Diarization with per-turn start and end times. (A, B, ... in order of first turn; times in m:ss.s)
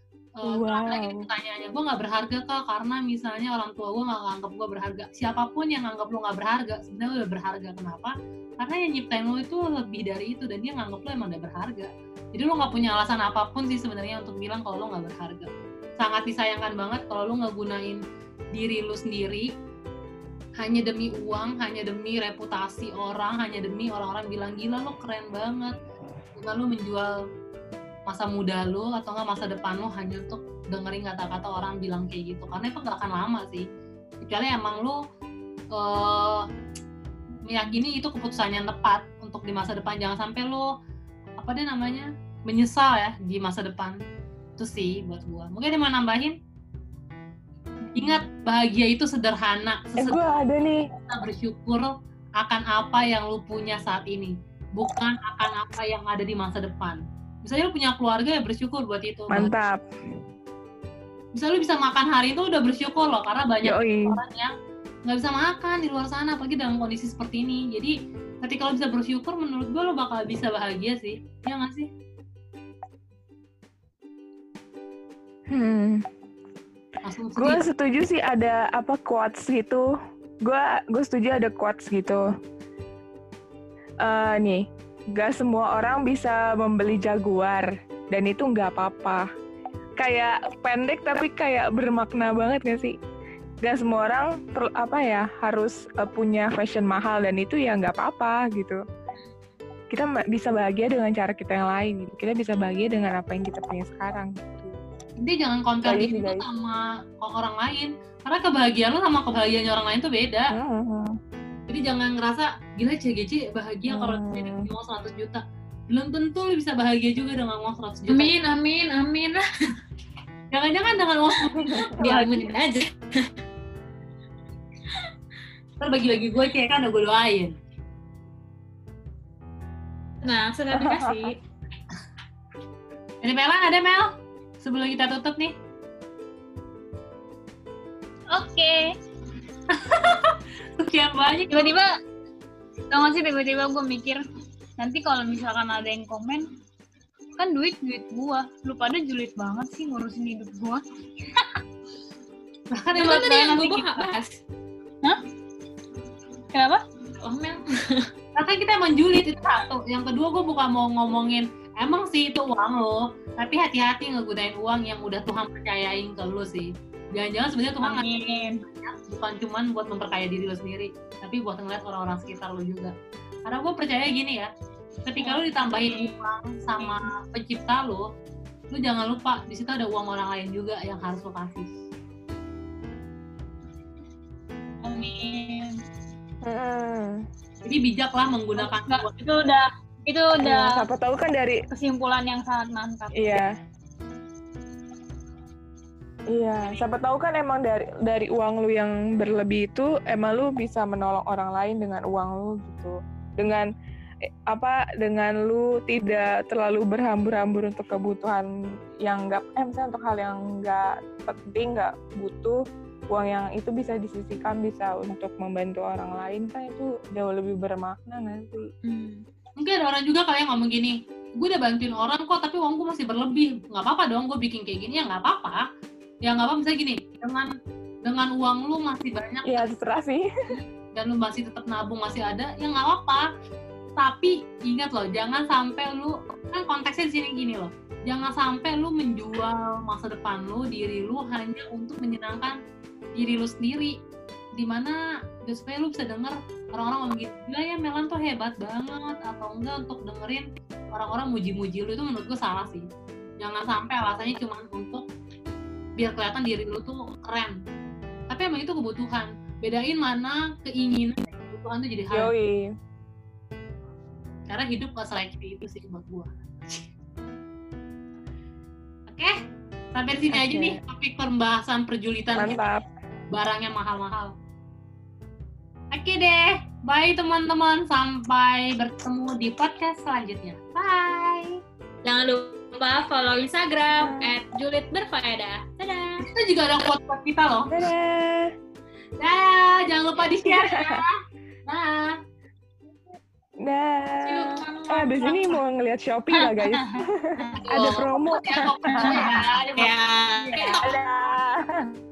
0:00.4-0:18.0 A
0:00.4-0:01.2 B
0:18.6-0:19.5 A
0:20.6-0:25.8 A
0:26.4-0:27.1 A
0:28.1-0:33.7 A
0:34.2-0:35.0 A
0:35.7-0:36.4 A
0:37.5-0:40.7 A
0:41.4-0:44.0 A
0:44.6-0:46.4 A
0:48.0-0:50.2 A
0:50.0-0:50.8 B
0:51.1-0:59.5 A
0:59.3-0:59.8 B
1:01.4-1:04.5 A
1:03.6-1:04.2 B
1:05.1-1:11.9 A
1:15.5-1:16.0 B
1:17.0-1:17.6 A
1:17.4-1:19.9 B
1:20.4-1:22.2 B
1:24.0-1:29.2 B
1:30.0-1:33.0 B
1:33.6-1:38.8 B
1:39.9-1:44.8 B
1:45.2-1:50.5 A
1:45.8-1:46.4 B
1:50.5-1:51.1 B
1:51.7-1:58.3 A
1:53.9-1:54.7 B
1:58.1-1:59.4 C
2:00.5-2:02.5 A
2:01.6-2:03.3 C
2:05.8-2:07.5 A
2:10.2-2:11.4 C
2:10.7-2:11.3 B
2:13.2-2:14.1 A
2:14.6-2:15.5 A
2:18.3-2:18.8 D
2:19.7-2:21.7 A
2:21.5-2:21.9 D
2:22.9-2:24.2 D
2:24.8-2:26.5 D
2:27.4-2:31.6 D
2:32.8-2:33.6 A
2:33.0-2:34.4 C
2:33.0-2:34.1 D
2:36.5-2:36.8 D
2:37.2-2:38.1 C
2:38.4-2:48.1 A
2:47.8-2:48.6 D
2:48.7-2:52.9 A
2:53.5-2:54.5 A
2:55.1-2:58.0 A
2:55.2-2:56.2 D
2:58.7-3:01.7 A
3:04.8-3:05.8 D
3:06.4-3:07.2 B
3:07.6-3:09.1 A
3:08.6-3:10.8 D
3:10.4-3:11.6 B
3:11.7-3:13.4 D
3:13.2-3:13.5 B
3:16.3-3:23.7 B
3:24.5-3:28.5 B
3:29.1-3:32.6 B
3:33.1-3:38.6 B
3:38.9-3:39.2 C
3:39.6-3:45.6 A
3:46.2-3:47.5 A
3:48.0-3:49.6 A
3:49.5-3:50.2 B
3:51.0-3:53.3 A
3:54.0-4:02.6 A
4:03.2-4:04.0 A
4:04.6-4:12.8 A
4:13.4-4:15.0 A
4:16.0-4:17.6 A
4:18.3-4:22.3 A
4:22.1-4:22.7 B
4:24.5-4:26.9 A
4:29.1-4:29.3 A
4:30.0-4:32.6 A
4:30.3-4:30.8 B
4:32.4-4:32.8 B
4:33.3-4:34.3 A
4:35.9-4:41.6 A
4:42.0-4:46.2 C
4:44.0-4:44.3 B
4:46.2-4:47.9 A
4:47.7-4:48.5 B
4:49.2-4:51.1 A
4:50.4-4:51.0 B
4:51.7-4:52.2 A
4:53.6-4:59.2 B
4:54.2-4:55.6 C
4:56.4-4:57.1 D
4:57.6-5:00.0 A
4:58.9-4:59.4 D
4:59.1-5:00.8 C
5:00.5-5:00.8 A
5:00.8-5:01.7 B